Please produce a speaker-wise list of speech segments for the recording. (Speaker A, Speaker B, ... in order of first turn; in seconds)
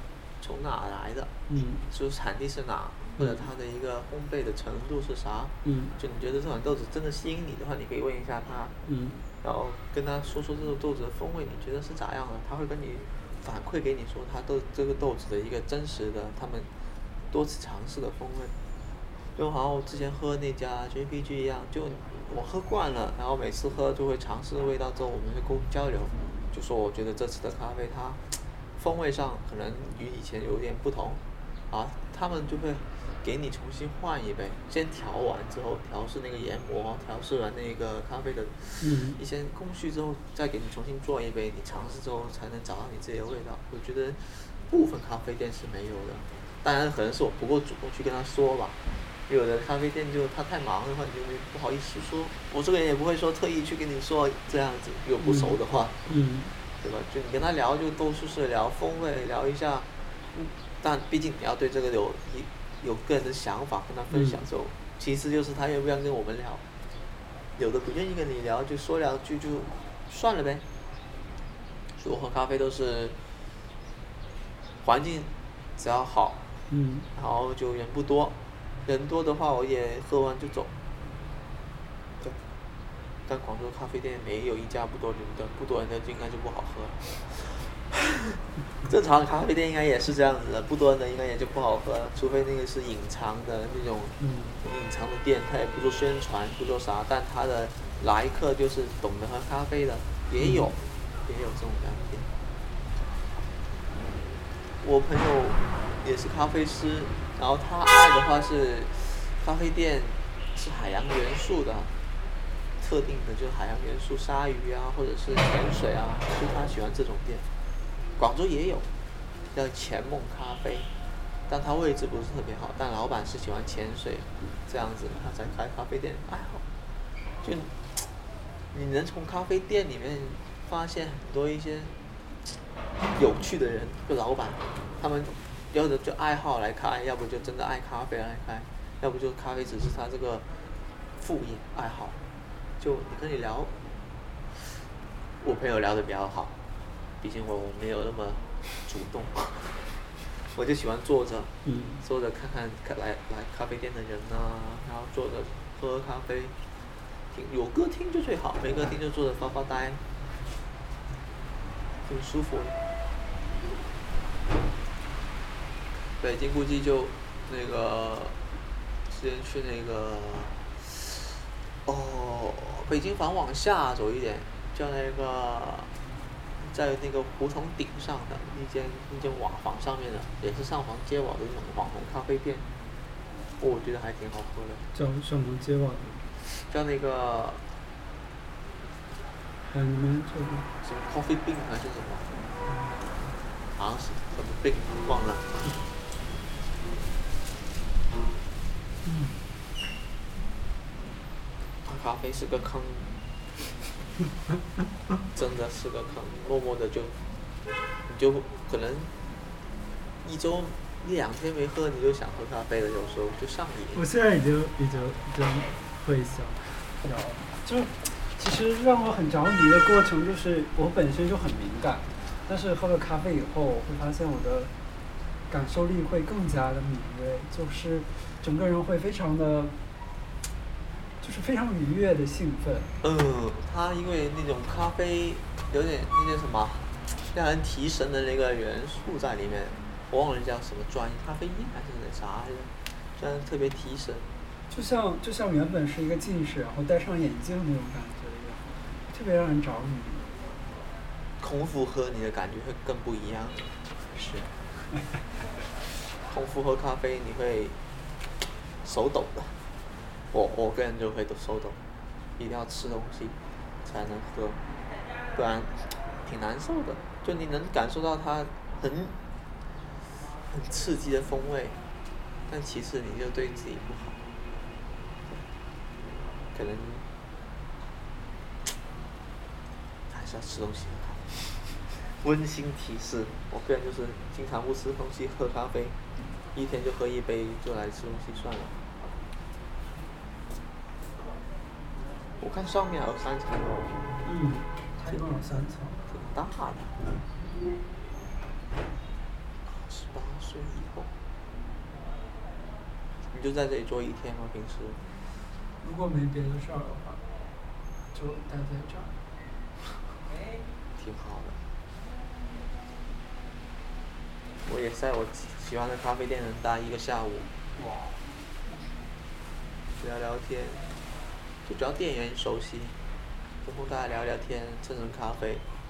Speaker A: 0.4-1.3, 1.9-8.8, 9.4-16.7, 17.3-18.5, 19.4-56.0, 56.8-66.6, 67.6-70.7, 72.0-73.2, 74.8-76.4, 77.2-80.7, 83.3-102.3, 104.8-111.9, 112.8-117.5, 118.2-118.9, 119.5-120.9, 121.5-126.6, 127.4-128.1, 128.7-131.9, 133.1-140.5, 141.2-142.2, 142.8-143.8, 145.4-146.5, 147.2-156.6, 157.3-160.0, 162.1-162.8, 166.2-168.4, 169.1-171.3, 171.9-175.9, 176.6-182.7, 183.6-184.9, 186.4-187.6, 190.8-192.3, 193.8-195.6, 201.8-203.2, 205.3-207.2, 208.1-209.1, 210.2-214.0, 233.0-244.3, 251.4-253.7, 256.2-257.8, 258.8-259.6, 260.3-261.8, 262.4-264.6, 265.3-269.2, 270.5-271.8, 272.5-274.2, 276.5-277.1, 280.1-286.0, 286.5-288.8, 292.4-294.1, 296.1-296.9, 299.7-301.1, 303.3-305.0, 311.0-311.6, 314.6-317.7, 319.9-320.8, 321.6-323.0, 323.6-325.6
Speaker B: 1.5-1.8, 3.2-3.5, 5.7-6.0, 8.9-9.2, 38.8-39.2, 55.2-56.5, 64.1-64.4, 76.7-77.1, 94.2-94.6, 100.4-100.7, 151.7-152.0, 184.9-186.3, 189.6-190.7, 192.7-193.2, 199.0-199.4, 213.9-224.7, 225.5-229.8, 231.2-232.9, 244.7-250.4, 254.1-255.1, 294.2-296.0, 305.8-307.2, 308.1-309.1